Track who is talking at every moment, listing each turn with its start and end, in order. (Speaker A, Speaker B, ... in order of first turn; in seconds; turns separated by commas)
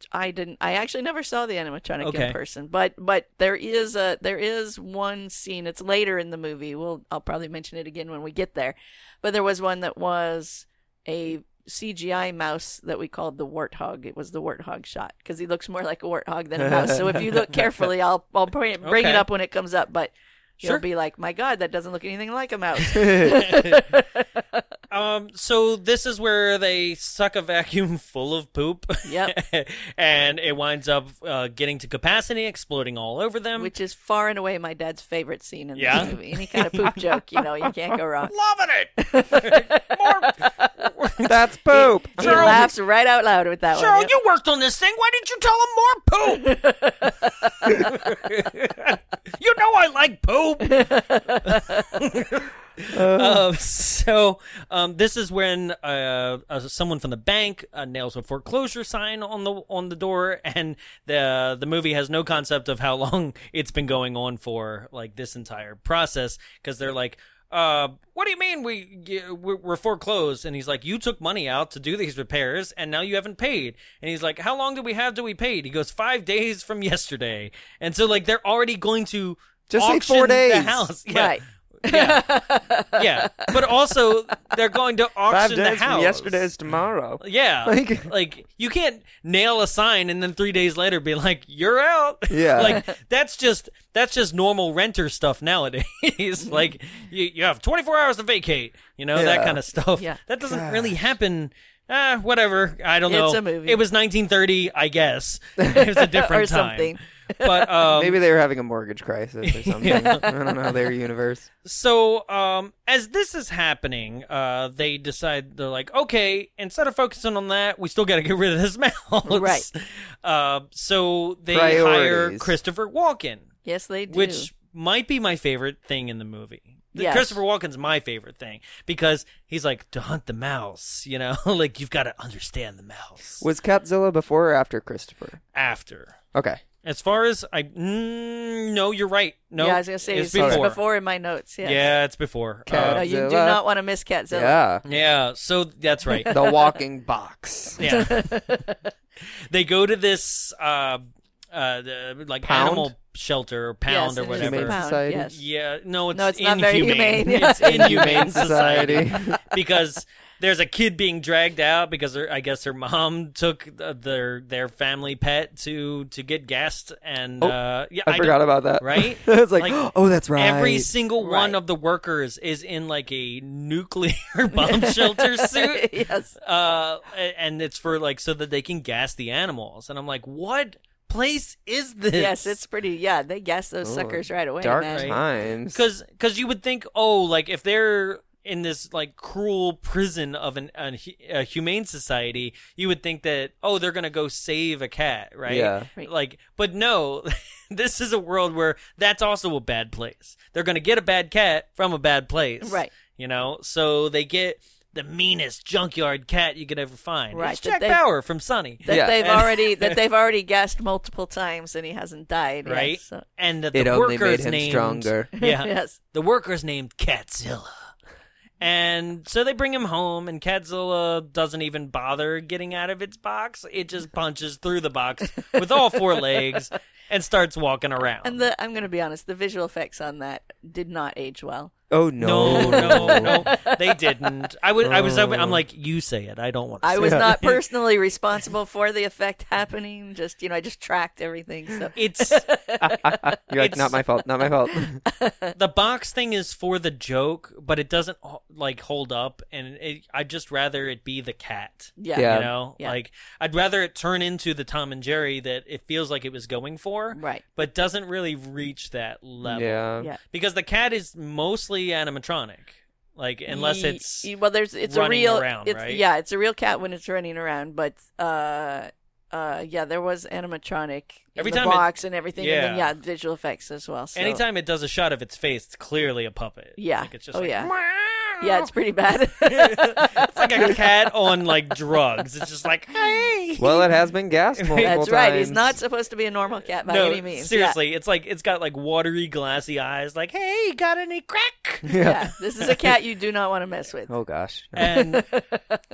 Speaker A: 0.1-24.6, Speaker B: 2.0-2.4, Speaker C: 16.6-17.2, Speaker B: 18.8-19.3, Speaker B: 23.0-23.9, Speaker B: 24.9-33.7, Speaker A: 29.1-29.3, Speaker A: 33.6-38.3, Speaker B: 35.8-36.9, Speaker B: 38.3-42.7, Speaker A: 39.0-40.7, Speaker C: 41.3-42.7, Speaker A: 41.7-44.1, Speaker B: 43.7-46.6, Speaker A: 46.4-47.8, Speaker B: 47.2-86.5, Speaker A: 50.6-51.9, Speaker C: 52.9-53.5, Speaker C: 79.7-80.9, Speaker A: 81.1-83.6, Speaker C: 85.3-88.1, Speaker B: 87.2-108.2, Speaker C: 92.3-92.8, Speaker C: 99.2-99.6, Speaker C: 100.5-101.1, Speaker A: 103.1-103.8, Speaker A: 105.9-107.7, Speaker C: 107.9-111.5, Speaker B: 109.5-110.3, Speaker B: 111.7-123.5, Speaker A: 119.2-119.7, Speaker C: 121.5-122.5, Speaker A: 123.7-124.5, Speaker B: 124.1-133.4, Speaker A: 127.0-127.4, Speaker C: 133.4-135.4, Speaker B: 135.6-136.2, Speaker C: 136.3-136.6, Speaker B: 136.8-140.8, Speaker A: 139.6-141.9, Speaker C: 140.3-140.7, Speaker B: 141.6-143.1, Speaker C: 142.7-143.6, Speaker A: 142.7-144.6, Speaker C: 144.3-144.8, Speaker B: 144.9-146.3, Speaker A: 146.2-146.7, Speaker C: 146.3-147.8, Speaker B: 147.8-148.6, Speaker A: 147.9-148.8, Speaker B: 149.5-175.9, Speaker C: 152.4-152.9, Speaker A: 153.9-155.4, Speaker C: 154.3-155.3, Speaker A: 156.1-158.7, Speaker C: 157.6-159.4, Speaker C: 167.4-170.9, Speaker A: 171.2-171.6, Speaker A: 174.5-176.3, Speaker B: 176.4-182.6, Speaker A: 182.1-185.2, Speaker C: 183.8-185.8, Speaker B: 184.9-210.0, Speaker C: 195.5-195.9, Speaker A: 202.6-202.9, Speaker A: 207.3-208.0, Speaker A: 208.8-213.2, Speaker C: 208.9-209.2, Speaker B: 212.7-217.7, Speaker C: 213.7-215.3, Speaker A: 215.4-216.0, Speaker B: 218.6-228.4, Speaker A: 225.5-226.0, Speaker A: 228.2-231.7, Speaker C: 231.9-233.5, Speaker B: 232.2-237.6, Speaker A: 232.4-234.1, Speaker C: 234.8-235.6, Speaker A: 236.8-243.2, Speaker C: 237.0-237.3, Speaker B: 242.0-242.5, Speaker C: 242.8-245.0, Speaker B: 243.6-244.0, Speaker A: 245.1-245.6, Speaker B: 245.6-264.3, Speaker A: 252.0-253.0, Speaker C: 252.1-252.5, Speaker A: 257.1-257.5, Speaker C: 259.4-260.1, Speaker A: 263.5-274.4, Speaker B: 264.9-266.0, Speaker B: 271.4-272.9, Speaker B: 274.1-278.6, Speaker A: 276.8-277.7, Speaker A: 278.4-280.8, Speaker B: 279.5-283.8, Speaker C: 283.6-285.8, Speaker B: 284.6-285.0, Speaker A: 284.8-287.8, Speaker B: 286.9-292.0, Speaker C: 291.9-292.3, Speaker A: 292.0-294.1, Speaker C: 294.1-295.0, Speaker B: 294.8-295.2, Speaker A: 294.9-295.8